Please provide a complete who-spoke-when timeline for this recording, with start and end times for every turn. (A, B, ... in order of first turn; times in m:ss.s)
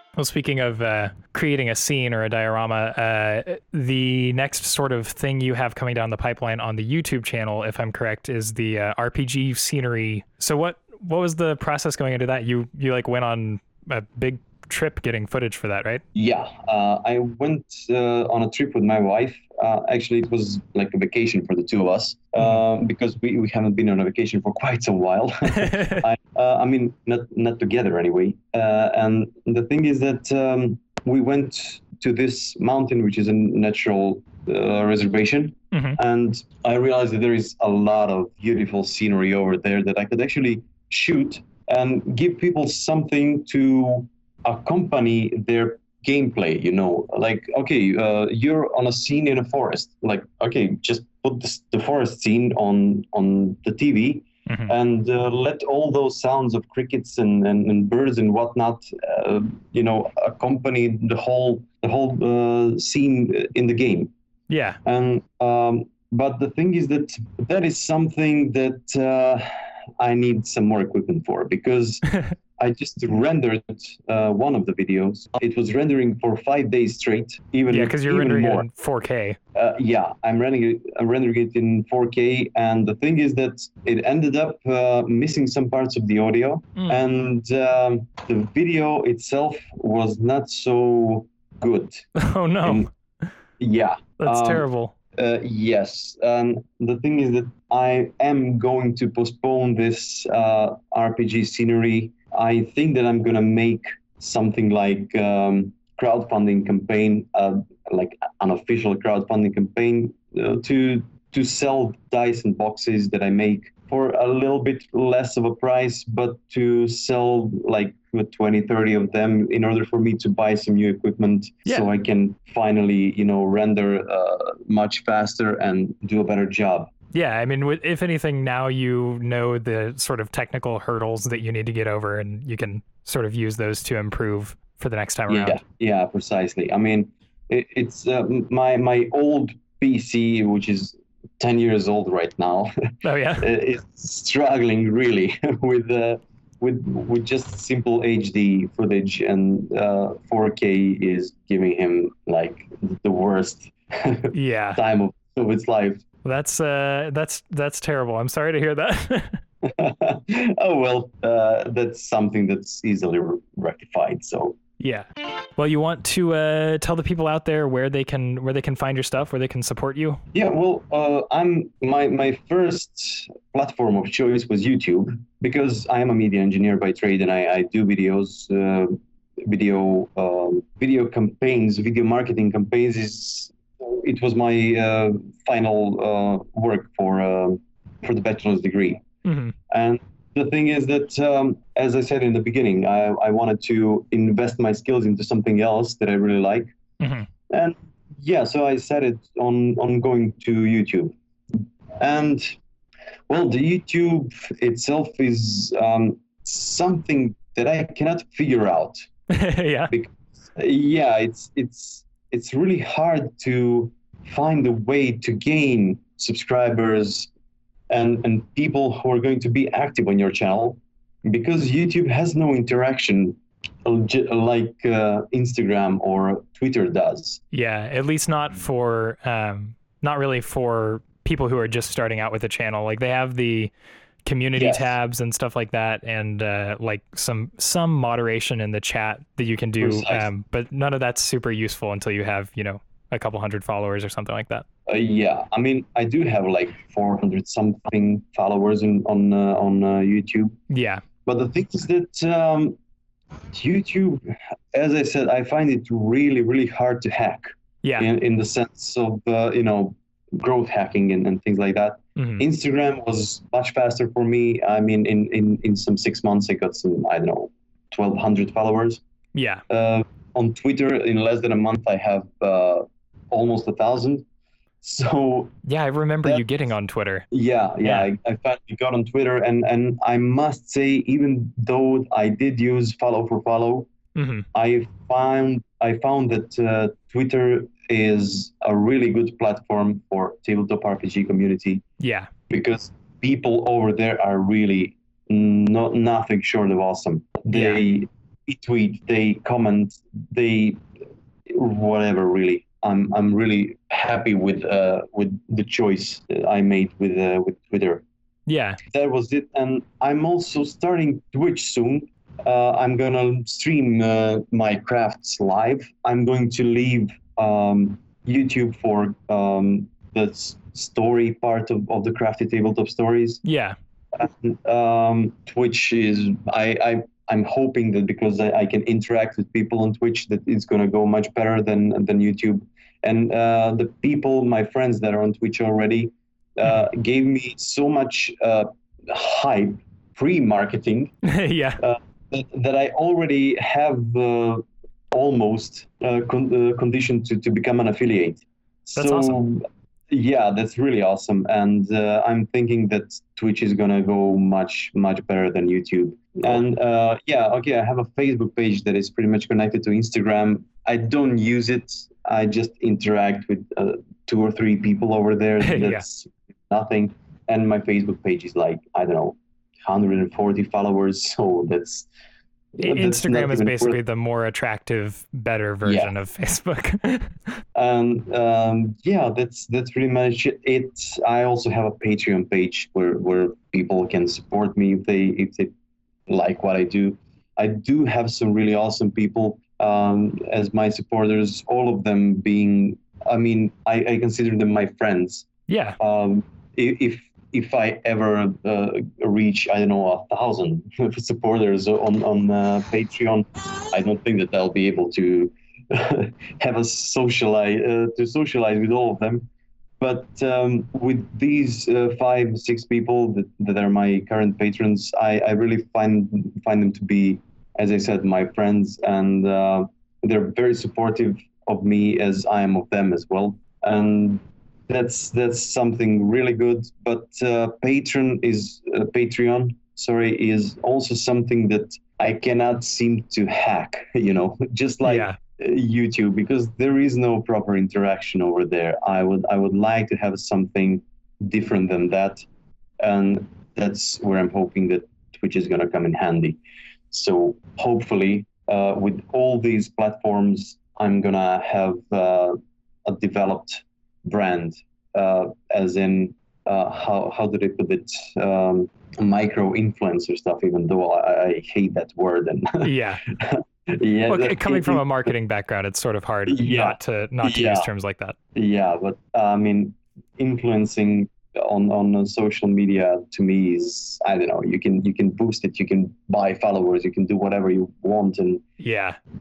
0:00.2-0:16.0 A
0:16.1-1:04.1 B
0:25.6-0:26.0 A
0:35.7-0:36.0 A
0:54.5-0:54.7 A
1:04.5-1:04.8 A
1:04.8-1:09.5 B
1:10.0-1:12.1 B
1:12.6-1:18.7 B
1:17.7-1:19.4 A
1:19.6-1:32.1 B
1:32.2-1:32.9 A
1:33.6-2:06.9 B
1:34.2-1:34.9 A
2:07.1-2:15.6 A
2:15.3-2:36.0 B
2:23.0-2:23.5 A
2:34.3-2:34.8 A
2:36.2-2:39.4 A
2:39.6-2:44.6 B
2:44.8-2:50.2 A
2:50.3-3:09.0 B
3:09.2-3:09.6 A
3:09.7-3:16.7 B
3:17.0-3:17.3 A
3:17.5-3:21.2 B
3:22.0-3:22.6 B
3:23.3-3:29.1 B
3:29.3-3:29.9 A
3:29.9-3:37.3 B
3:37.9-3:47.4 B
3:47.5-3:53.7 A
3:54.2-4:04.6 A
3:54.6-3:54.9 B
3:59.8-4:00.3 B
4:04.9-4:10.6 B
4:10.7-4:11.0 A
4:11.2-4:12.8 B
4:13.5-4:29.0 B
4:17.8-4:18.1 A
4:22.2-4:22.4 A
4:29.4-4:29.6 A
4:29.7-4:34.2 B
4:34.8-4:35.6 B
4:35.6-4:37.3 A
4:37.3-4:43.9 B
4:44.2-4:44.5 A
4:44.5-4:51.8 B
4:52.0-4:52.3 A
4:52.5-5:00.8 B
4:57.5-4:57.8 A
5:01.5-5:08.0 B
5:08.5-5:08.8 A
5:08.9-5:23.4 B
5:23.4-5:23.8 A
5:24.2-5:41.1 B
5:41.3-5:41.8 A
5:41.8-6:12.1 B
5:49.0-5:49.4 A
6:05.6-6:06.0 A
6:12.8-6:14.0 B
6:12.8-6:17.5 A
6:15.8-6:16.1 B
6:17.8-6:25.7 B
6:26.3-6:35.5 B
6:35.7-6:36.0 A
6:36.0-6:49.5 B
6:50.0-7:22.4 B
7:15.0-7:15.4 A
7:23.0-7:26.6 B
7:27.1-7:45.3 B
7:42.8-7:43.2 A
7:44.3-7:48.4 A
7:46.5-7:47.9 B
7:48.6-7:58.6 B
7:58.8-7:59.2 A